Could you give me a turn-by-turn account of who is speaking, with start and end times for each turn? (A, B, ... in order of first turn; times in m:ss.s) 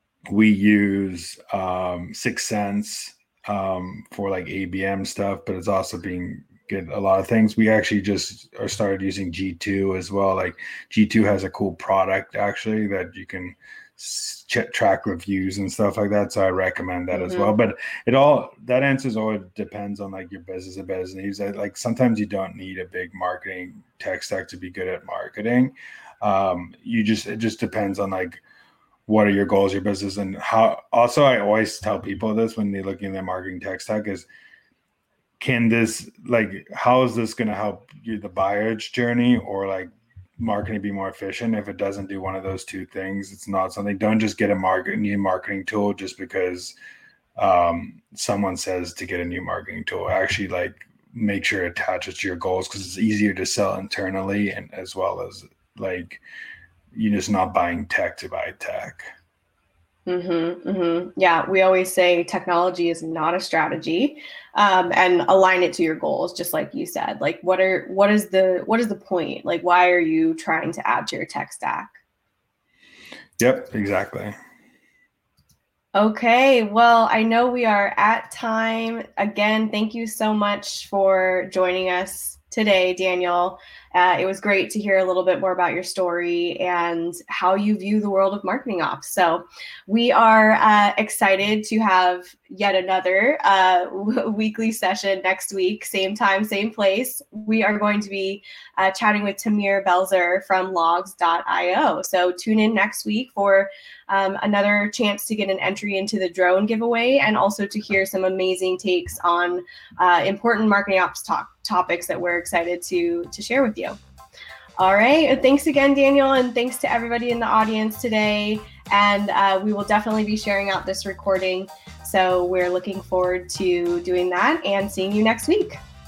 0:00.3-0:28.4 A
0:17.1-0:17.5 B
0:29.0-0:34.3 A
0:35.4-0:46.7 A
0:47.4-0:56.2 A
0:56.9-0:59.1 A
1:00.1-1:11.9 B
1:13.4-1:14.3 A
1:15.9-1:54.0 B
1:54.8-2:05.8 B